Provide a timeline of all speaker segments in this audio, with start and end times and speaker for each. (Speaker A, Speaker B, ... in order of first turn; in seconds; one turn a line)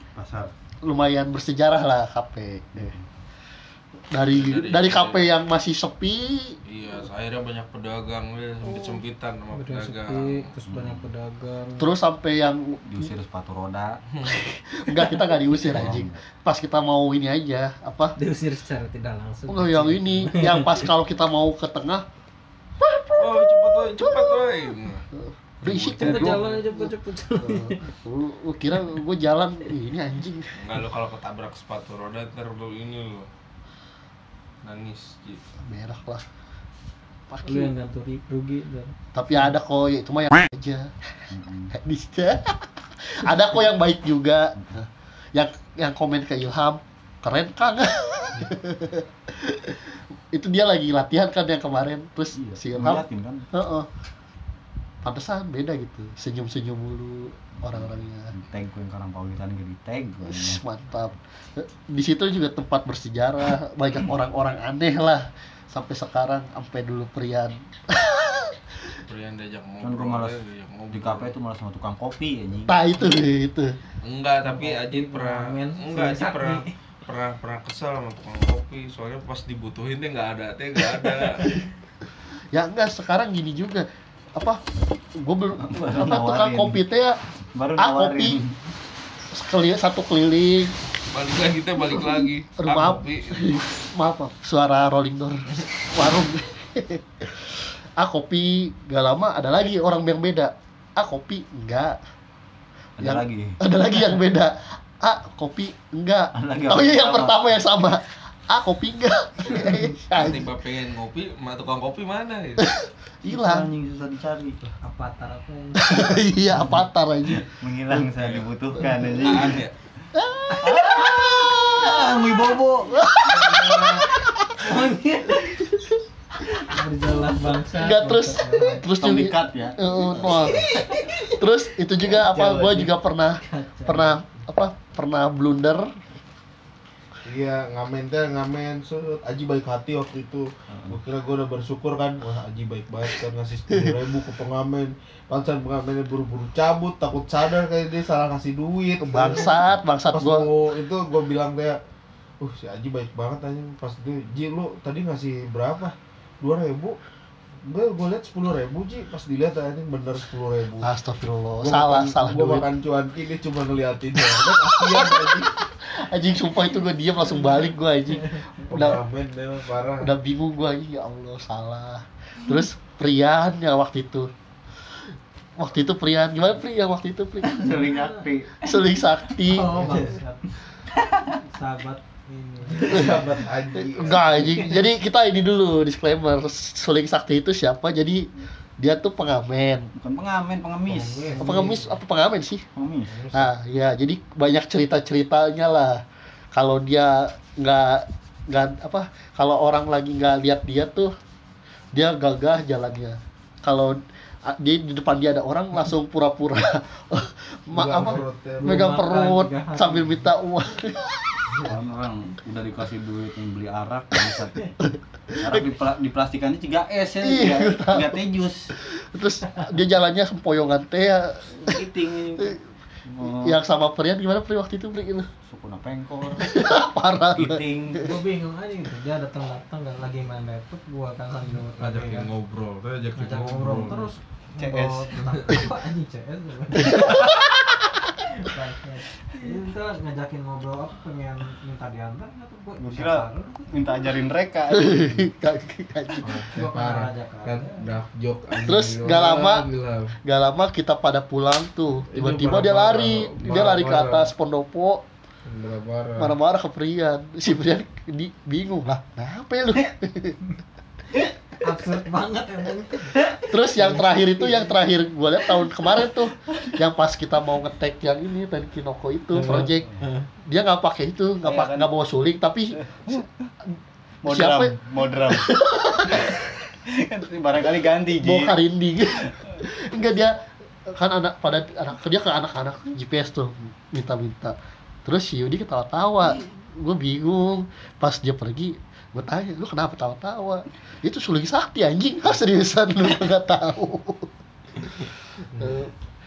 Speaker A: 0.1-0.5
Speaker B: 0.8-3.0
Speaker A: 2.8-3.0
Speaker B: 4.1-6.6
Speaker C: 4.3-5.3
Speaker C: 6.7-10.5
Speaker B: 8.6-9.0
Speaker D: 9.5-11.9
Speaker A: 10.6-11.1
Speaker B: 11.8-13.1
Speaker A: 12.8-14.0
Speaker C: 14.1-14.4
Speaker B: 14.3-18.2
Speaker A: 15.6-16.2
Speaker D: 18.2-20.9
Speaker B: 19.5-22.0
Speaker B: 22.8-30.6
Speaker C: 23.2-25.1
Speaker C: 25.6-26.5
Speaker D: 25.9-27.8
Speaker C: 30.6-33.3
Speaker C: 34.6-35.4
Speaker B: 35.6-36.2
Speaker B: 37.3-37.7
Speaker D: 37.4-38.9
Speaker B: 39.1-40.9
Speaker A: 41.3-41.7
Speaker B: 41.7-53.9
Speaker A: 52.3-53.5
Speaker B: 55.0-58.3
Speaker A: 57.6-60.6
Speaker B: 60.2-68.9
Speaker C: 69.0-71.3
Speaker A: 69.8-72.9
Speaker B: 72.7-73.7
Speaker C: 74.0-81.5
Speaker D: 74.4-76.7
Speaker B: 82.5-84.6
Speaker B: 85.2-87.2
Speaker A: 85.6-86.8
Speaker A: 87.5-88.6
Speaker B: 87.8-88.4
Speaker B: 89.3-90.8
Speaker C: 91.1-93.6
Speaker B: 92.6-102.0
Speaker A: 103.0-103.6
Speaker B: 103.0-110.5
Speaker A: 106.3-107.4
Speaker C: 109.5-112.6
Speaker B: 112.6-113.7
Speaker A: 113.2-114.7
Speaker D: 114.8-116.7
Speaker B: 115.8-118.0
Speaker A: 117.4-119.7
Speaker C: 118.2-118.4
Speaker B: 118.8-119.5
Speaker C: 119.2-119.7
Speaker B: 120.2-122.3
Speaker A: 120.6-123.0
Speaker B: 122.9-124.6
Speaker D: 123.3-125.6
Speaker D: 126.6-128.8
Speaker B: 127.8-130.6
Speaker A: 129.0-130.7
Speaker D: 130.3-131.3
Speaker B: 131.3-135.9
Speaker A: 132.1-132.9
Speaker D: 133.4-134.2
Speaker E: 137.2-151.8
Speaker A: 140.7-141.0
Speaker B: 149.1-150.5
Speaker E: 152.4-157.0
Speaker E: 157.6-160.9
Speaker B: 160.8-162.7
Speaker E: 161.6-165.5
Speaker B: 164.2-169.0
Speaker E: 168.7-170.1
Speaker B: 170.0-174.3
Speaker B: 175.6-177.8
Speaker A: 177.4-178.5
Speaker D: 177.5-178.3
Speaker B: 178.6-180.0
Speaker D: 179.4-180.4
Speaker A: 179.6-180.3
Speaker A: 180.9-181.4
Speaker D: 181.2-183.4
Speaker E: 182.7-184.7
Speaker B: 183.8-189.9
Speaker A: 189.9-191.8
Speaker E: 190.9-191.7
Speaker B: 191.4-192.6
Speaker A: 192.7-193.1
Speaker E: 193.1-193.5
Speaker B: 193.3-196.0
Speaker B: 196.5-201.1
Speaker B: 201.9-211.4
Speaker E: 207.7-208.8
Speaker D: 208.0-210.2
Speaker A: 211.6-214.7
Speaker B: 215.3-215.7
Speaker A: 215.4-218.7
Speaker B: 217.2-218.1
Speaker B: 218.8-221.8
Speaker A: 221.5-223.6
Speaker B: 223.2-225.3
Speaker A: 225.4-226.8
Speaker B: 226.4-227.6
Speaker A: 227.3-228.1
Speaker D: 228.0-232.3
Speaker C: 231.8-234.1
Speaker D: 233.2-237.2
Speaker A: 234.6-235.4
Speaker B: 236.8-237.8
Speaker D: 238.2-244.2
Speaker A: 242.8-245.3
Speaker B: 244.7-246.5
Speaker E: 246.2-250.1
Speaker D: 246.5-247.9
Speaker B: 248.6-249.7
Speaker B: 250.2-255.0
Speaker E: 252.1-254.3
Speaker E: 255.4-256.3
Speaker B: 256.2-260.4
Speaker D: 261.6-264.7
Speaker B: 263.5-269.9
Speaker D: 269.3-270.3
Speaker B: 270.4-273.2
Speaker A: 271.4-271.9
Speaker A: 272.8-273.5
Speaker A: 274.2-275.5
Speaker B: 274.2-274.7
Speaker B: 275.3-276.4
Speaker A: 276.1-278.6
Speaker B: 278.2-295.9
Speaker E: 295.5-295.9